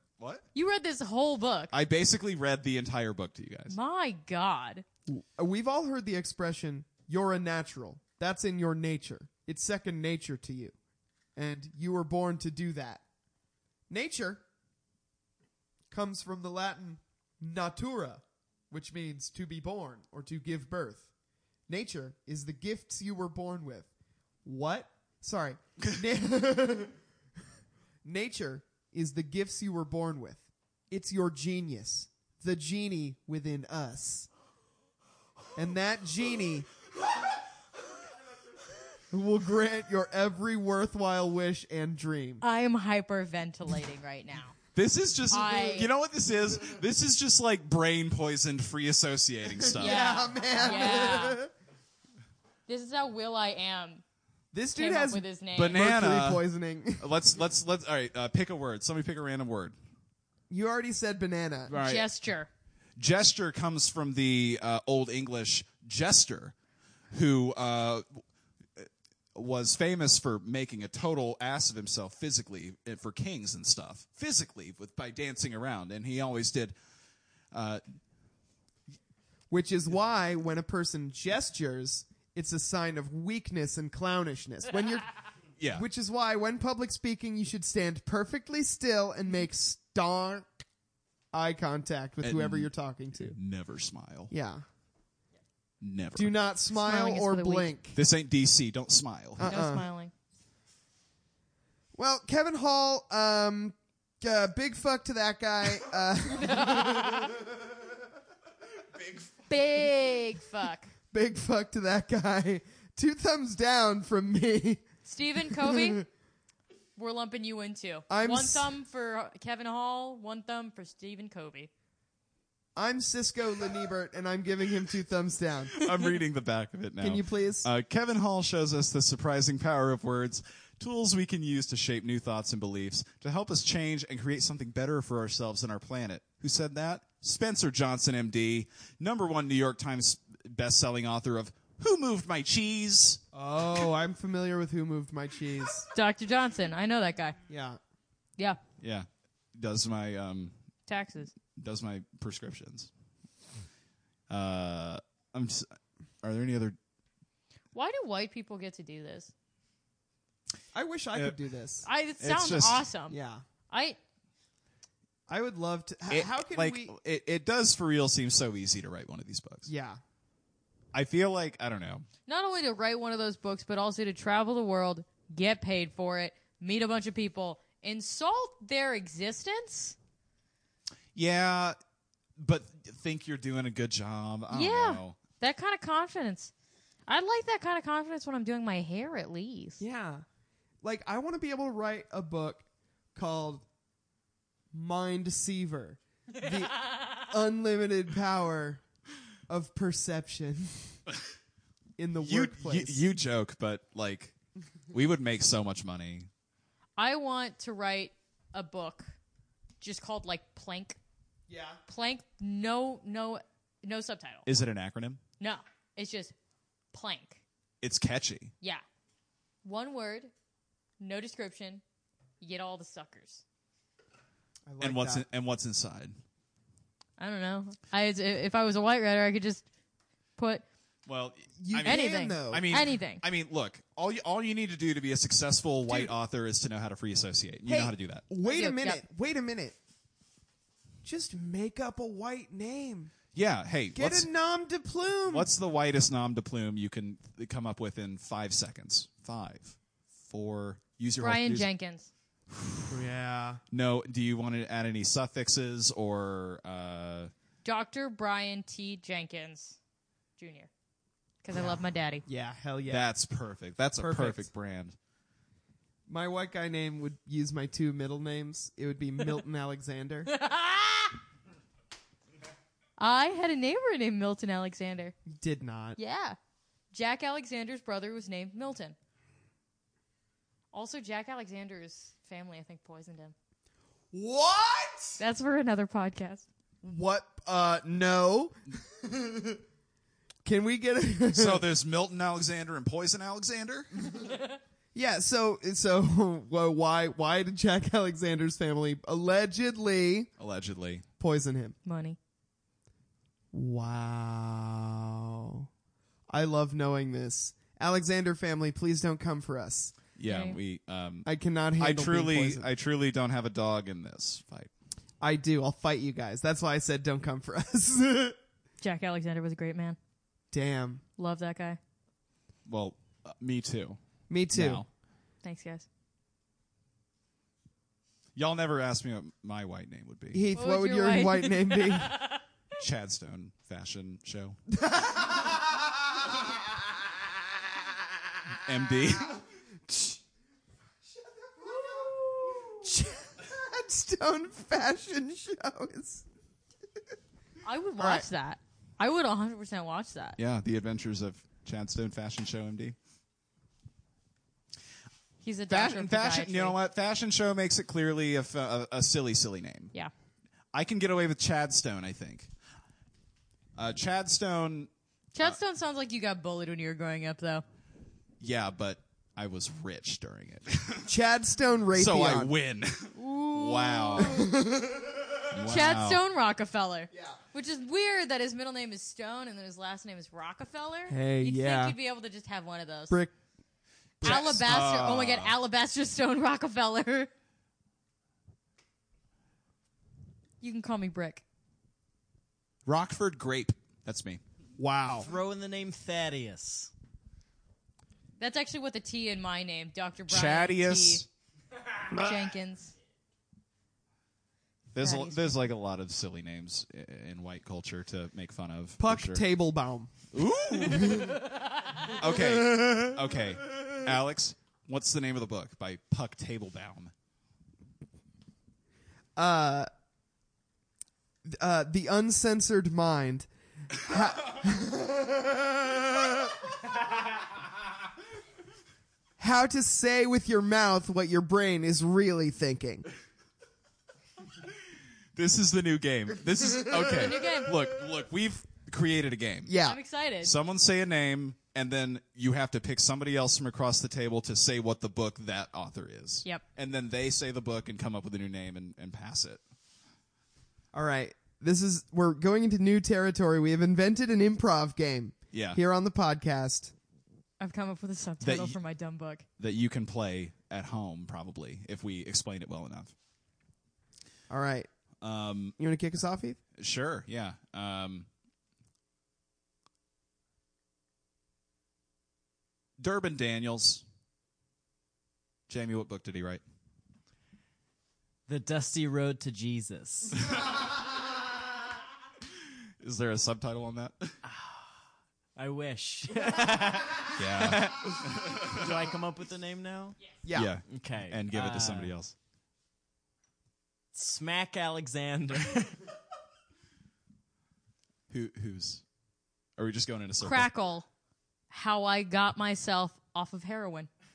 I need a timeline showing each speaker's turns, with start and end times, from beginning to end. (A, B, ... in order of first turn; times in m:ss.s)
0:00.2-0:00.4 A
0:00.5-0:01.7 B
0:01.7-0:03.8 A
0:03.7-0:04.8 B
0:05.1-0:10.7 C
0:11.4-0:13.0 C
0:13.9-0:14.4 C
0:15.9-0:21.1 C
0:21.7-0:23.9 C
0:24.4-0:26.9 C
0:28.0-0:34.3 C
0:35.5-0:36.7 C
0:39.1-0:42.4 C
0:42.4-0:44.5 B
0:44.7-0:50.1 A
0:45.3-0:45.9 B
0:49.6-0:51.5 C
0:49.8-0:51.4 B
0:52.7-0:54.0 B
0:54.5-0:57.1 C
0:54.7-0:55.8 B
0:55.5-0:56.4 A
0:57.0-0:59.8 A
1:00.5-1:01.8 C
1:01.7-1:02.1 A
1:01.7-1:02.5 B
1:03.0-1:06.5 A
1:07.1-1:08.2 A
1:08.8-1:16.7 A
1:17.5-1:17.8 A
1:19.5-1:25.1 C
1:25.6-1:25.8 A
1:25.7-1:30.6 C
1:31.3-1:33.4 C
1:32.2-1:34.3 A
1:34.3-1:34.6 C
1:35.8-1:36.4 A
1:36.1-1:38.0 C
1:36.7-1:37.7 B
1:37.9-1:39.6 A
1:39.4-1:39.8 C
1:39.4-1:40.1 B
1:41.9-1:47.4 C
1:46.3-1:47.3 B
1:49.5-1:50.9 B
1:51.1-1:54.8 C
1:55.0-1:56.0 B
1:55.5-1:56.0 C
1:57.0-2:01.7 B
1:58.1-1:58.7 C
2:02.7-2:05.8 C
2:05.8-2:23.2 A
2:07.0-2:07.7 C
2:23.3-2:25.9 C
2:25.9-2:27.4 B
2:27.5-2:27.8 C
2:28.8-2:30.5 A
2:30.9-2:31.3 B
2:31.6-2:32.9 A
2:34.3-2:36.8 A
2:37.7-2:39.3 B
2:40.7-2:41.9 C
2:41.8-2:43.2 B
2:42.2-2:42.8 A
2:43.1-2:43.4 C
2:43.7-2:44.0 B
2:45.3-2:46.9 C
2:46.1-2:49.7 A
2:49.6-2:50.0 C
2:50.9-2:52.0 A
2:52.3-3:00.0 B
3:01.1-3:01.8 A
3:02.4-3:05.2 A
3:04.5-3:06.5 B
3:07.1-3:09.8 B
3:09.8-3:10.2 C
3:10.8-3:13.6 C
3:14.7-3:18.8 C
3:19.5-3:21.0 C
3:22.0-3:23.0 C
3:22.2-3:24.3 A
3:24.9-3:26.3 A
3:27.0-3:29.1 B
3:29.8-3:31.0 B
3:31.5-3:31.8 C
3:31.9-3:34.4 B
3:34.4-3:35.2 A
3:35.4-3:36.3 B
3:36.9-3:37.4 B
3:37.8-3:38.5 A
3:39.6-3:40.3 B
3:41.0-3:41.8 B
3:42.4-3:43.4 B
3:44.6-3:45.2 C
3:44.8-3:46.2 A
3:47.2-3:49.6 B
3:50.4-3:50.6 B
3:51.0-3:58.2 A
3:51.6-3:52.7 C
3:51.8-3:53.2 B
3:55.9-3:56.1 C
3:57.6-3:59.8 C
3:58.4-3:59.0 B
4:01.0-4:03.1 C
4:03.3-4:04.3 A
4:03.9-4:05.5 C
4:05.3-4:11.7 A
4:11.2-4:12.1 B
4:12.5-4:13.0 A
4:12.9-4:13.6 C
4:13.7-4:17.3 A
4:17.6-4:19.8 B
4:20.4-4:20.7 B
4:21.4-4:22.2 B
4:21.5-4:23.1 C
4:22.9-4:24.9 A
4:24.0-4:24.5 C
4:26.1-4:30.3 C
4:30.3-4:31.1 B
4:33.0-4:35.1 B
4:35.3-4:36.0 C
4:36.0-4:36.4 B
4:36.9-4:39.0 B
4:40.7-4:43.3 B
4:44.1-4:45.2 C
4:45.2-4:46.4 B
4:46.8-4:49.6 C
4:50.4-4:51.6 C
4:51.3-4:53.9 A
4:54.9-5:00.3 C
5:00.4-5:01.0 A
5:01.2-5:01.8 C
5:01.8-5:02.2 B
5:03.5-5:05.7 C
5:06.3-5:09.9 C
5:10.2-5:14.7 A
5:10.2-5:10.6 B
5:11.2-5:12.7 C
5:15.2-5:18.4 C
5:18.8-5:20.0 B
5:20.5-5:21.0 C
5:21.2-5:21.8 B
5:22.6-5:24.0 A
5:24.3-5:24.8 C
5:24.5-5:24.9 A
5:25.4-5:25.9 B
5:28.4-5:30.4 A
5:30.3-5:32.2 C
5:30.5-5:32.4 B
5:32.8-5:34.6 A
5:34.7-5:36.6 C
5:38.6-5:39.4 A
5:39.9-5:40.2 C
5:41.6-5:46.2 C
5:47.6-5:50.4 B
5:48.0-5:48.2 C
5:50.4-5:53.0 A
5:55.4-5:56.8 B
5:55.7-5:59.9 A
6:00.7-6:02.5 A
6:03.7-6:05.6 A
6:05.3-6:07.6 B
6:08.4-6:11.1 A
6:11.1-6:12.5 C
6:11.9-6:14.4 A
6:13.1-6:14.3 B
6:14.2-6:15.4 C
6:15.5-6:16.2 A
6:15.7-6:23.2 B
6:21.1-6:22.0 C
6:24.2-6:25.5 A
6:24.2-6:27.3 B
6:30.6-6:31.4 B
6:32.8-6:34.4 A
6:34.8-6:35.3 C
6:35.2-6:36.9 D
6:38.4-6:41.2 B
6:40.3-6:41.3 A
6:42.1-6:42.9 B
6:44.9-6:49.4 A
6:45.0-6:45.7 B
6:49.0-6:50.1 C
6:50.3-6:51.4 A
6:50.8-6:51.4 C
6:52.1-6:57.1 A
6:52.3-6:53.2 C
6:59.4-6:59.9 C
7:01.4-7:06.5 C
7:09.4-7:13.1 C
7:15.3-7:19.7 A
7:17.0-7:17.7 B
7:19.6-7:20.0 C
7:19.8-7:20.5 B
7:20.4-7:29.6 A
7:30.9-7:36.9 C
7:35.5-7:35.8 A
7:37.6-7:39.4 B
7:38.4-7:38.8 A
7:39.6-7:43.1 A
7:44.5-7:44.9 C
7:45.2-7:45.8 A
7:45.8-7:46.6 C
7:46.8-7:48.3 A
7:53.0-7:54.0 A
7:55.7-7:56.6 A
7:58.5-8:00.4 D
8:03.0-8:04.3 A
8:04.4-8:04.9 D
8:05.6-8:10.3 D
8:07.4-8:08.8 A
8:10.4-8:10.7 C
8:10.5-8:12.3 A
8:10.8-8:12.1 D
8:14.1-8:16.0 D
8:18.3-8:19.0 A
8:19.8-8:20.7 A
8:20.4-8:21.1 B
8:21.7-8:24.1 B